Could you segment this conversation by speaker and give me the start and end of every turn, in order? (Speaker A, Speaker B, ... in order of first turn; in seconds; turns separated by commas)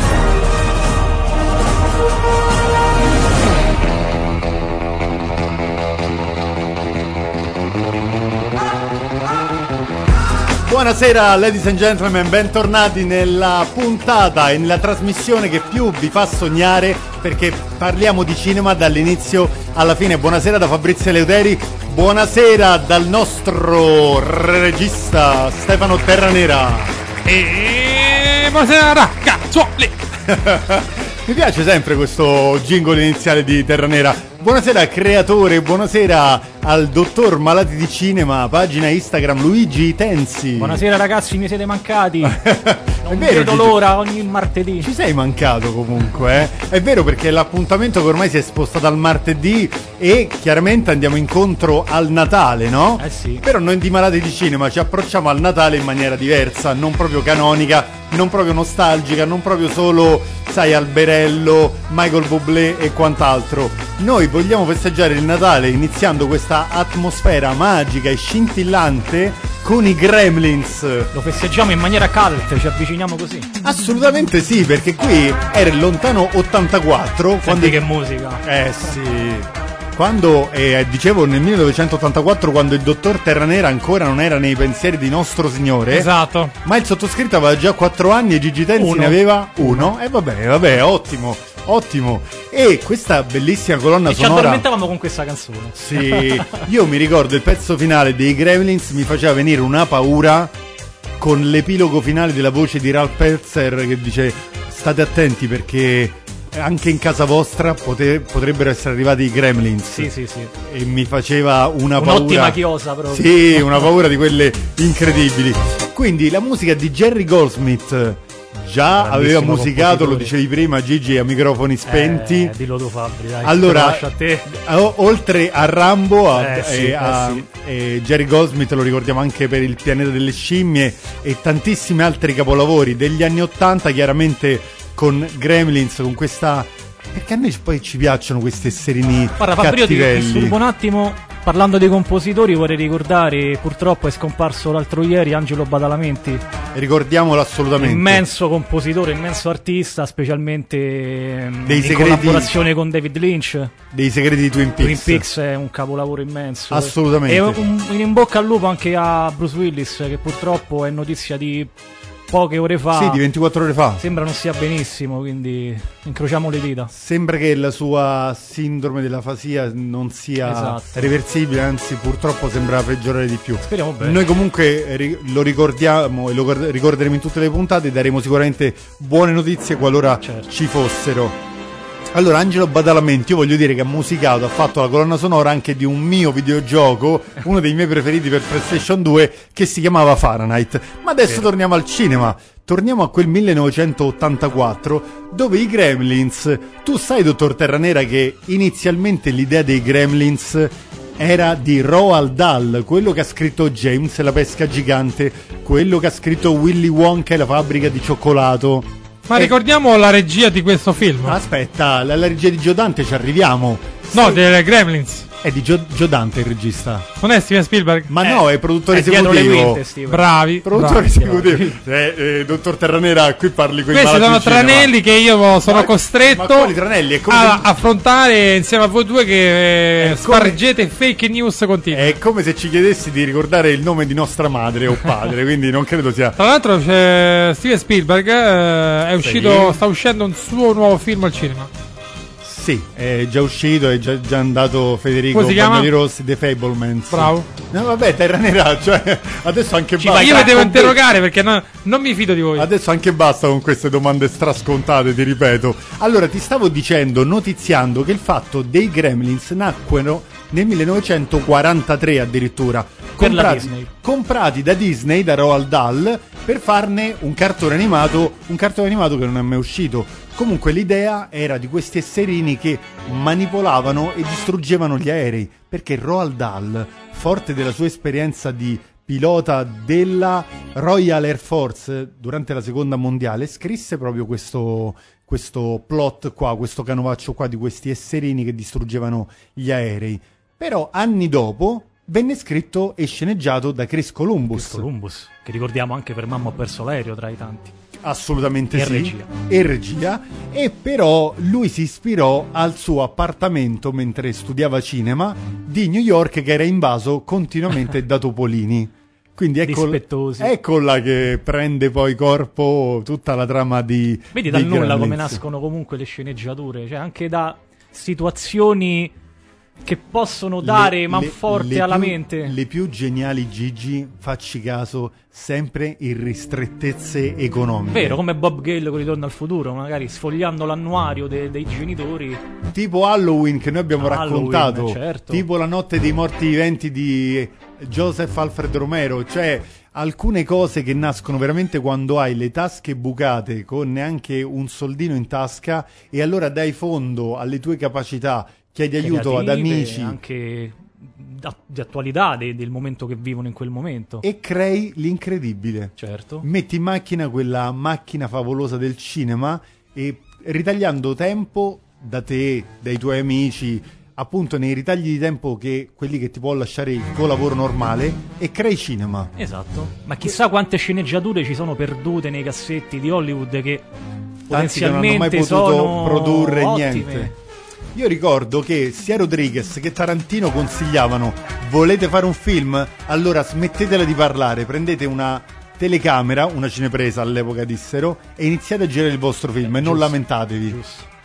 Speaker A: 10.6-26.9, Speaker B: 27.3-29.9, Speaker A: 30.3-40.8, Speaker C: 40.6-42.4, Speaker A: 42.2-43.8, Speaker C: 43.0-44.9, Speaker A: 44.8-71.1, Speaker C: 53.0-53.5, Speaker C: 71.1-73.5, Speaker A: 73.6-77.9, Speaker C: 77.4-78.4, Speaker A: 78.4-86.1, Speaker B: 85.9-86.5, Speaker A: 86.6-94.7, Speaker C: 88.8-89.9, Speaker C: 94.0-96.7, Speaker A: 95.8-100.5, Speaker A: 101.2-110.1, Speaker C: 109.9-110.5, Speaker A: 110.6-122.5, Speaker C: 112.0-113.8, Speaker C: 119.0-120.3, Speaker C: 121.9-124.5, Speaker A: 123.4-140.6, Speaker C: 126.3-127.5, Speaker C: 139.4-146.4, Speaker A: 146.7-148.2, Speaker C: 147.8-153.7, Speaker A: 151.6-152.6, Speaker A: 153.9-155.2, Speaker C: 154.8-161.7, Speaker A: 156.7-157.6, Speaker C: 162.3-163.2, Speaker A: 162.9-164.0, Speaker C: 164.0-166.9, Speaker A: 166.9-181.4, Speaker C: 170.4-171.1, Speaker C: 173.6-174.3, Speaker C: 180.2-180.5, Speaker A: 182.1-209.5, Speaker B: 209.3-211.4, Speaker A: 211.2-214.4, Speaker B: 214.1-215.3, Speaker A: 215.4-217.1, Speaker B: 217.2-218.1, Speaker A: 218.1-219.8, Speaker C: 218.9-220.3, Speaker B: 220.1-221.1, Speaker A: 220.6-224.9, Speaker C: 221.1-221.8, Speaker B: 223.9-226.7, Speaker A: 225.6-227.7, Speaker B: 227.3-232.2, Speaker A: 230.0-230.6, Speaker A: 231.9-236.4, Speaker B: 236.4-241.7, Speaker A: 239.2-239.8, Speaker A: 242.4-251.0, Speaker B: 245.3-245.9, Speaker B: 247.1-247.5, Speaker C: 250.0-250.9, Speaker B: 250.2-252.7, Speaker A: 252.6-294.9, Speaker C: 263.2-263.9, Speaker C: 294.5-297.7, Speaker A: 298.0-315.4, Speaker C: 298.7-299.3, Speaker C: 309.6-310.5, Speaker C: 314.3-319.1, Speaker C: 319.8-322.6, Speaker A: 320.6-328.2, Speaker C: 327.9-332.4, Speaker A: 332.7-350.2, Speaker C: 334.0-335.4, Speaker C: 349.0-354.2, Speaker A: 354.2-369.3, Speaker C: 356.0-356.4, Speaker C: 369.4-373.9, Speaker A: 374.5-377.3, Speaker C: 374.5-377.3, Speaker A: 377.9-390.8, Speaker C: 389.6-391.1